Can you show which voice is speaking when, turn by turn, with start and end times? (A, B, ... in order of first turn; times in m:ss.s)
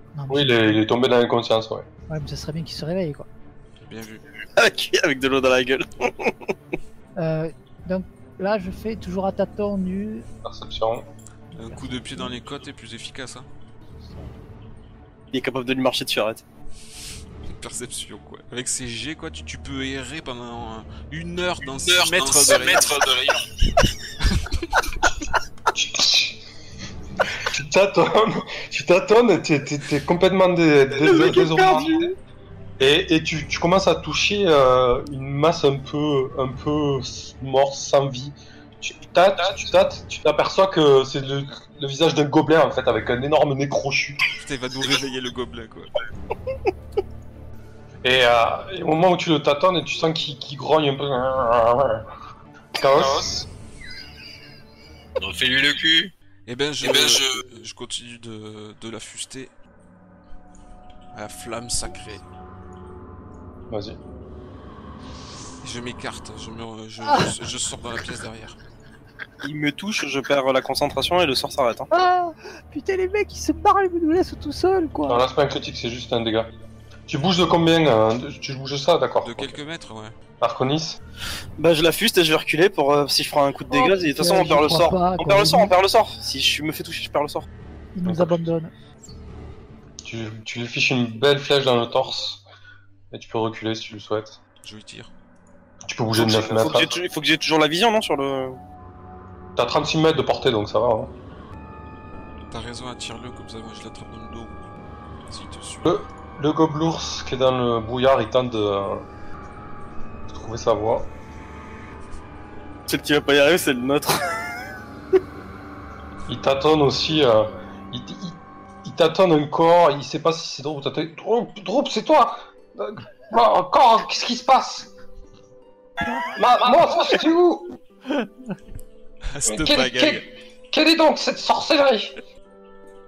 0:00.2-0:00.8 A
0:00.3-0:01.9 B
0:02.1-0:03.3 A
0:03.8-0:04.2 C
0:04.6-0:06.5 D
0:07.2-0:10.3 A
0:10.4-0:11.1 B
0:11.5-0:12.4 A
0:11.6-0:13.5 C
0:15.3-0:16.4 D
0:17.5-0:23.0 C
0:21.7-0:23.5 E
0:24.2-0:24.7 C
0:25.7-0:26.4 B
0:27.4-0:32.1 B
0:31.0-0:32.1 D
0:32.8-0:44.2 B
0:44.4-0:45.9 C
0:48.0-0:52.0 B
0:52.8-0:53.5 B
0:55.2-0:56.1 E
0:56.5-0:59.5 C
0:56.8-0:57.4 E
1:01.1-1:02.2 C
1:03.7-1:04.0 B
1:05.6-1:08.6 C
1:09.4-1:11.9 D
1:11.9-1:15.2 A
1:15.1-1:16.5 B
1:17.1-1:19.6 B
1:19.2-1:20.2 C
1:20.4-1:21.0 B
1:21.6-1:27.5 D
1:23.7-1:25.7 A
1:28.0-1:28.7 A
1:28.0-1:28.4 B
1:30.0-1:32.4 B
1:33.1-1:34.4 B
1:34.6-1:35.1 C
1:35.8-1:36.9 B
1:36.2-1:38.6 D
1:39.6-1:41.1 B
1:42.5-1:44.7 C
1:45.3-1:46.0 C
1:45.8-1:49.0 B
1:50.3-1:51.1 B
1:52.9-1:54.2 D
1:56.3-2:04.9 B
2:06.0-2:06.3 A
2:06.3-2:07.7 B
2:09.3-2:10.2 C
2:09.5-2:12.1 B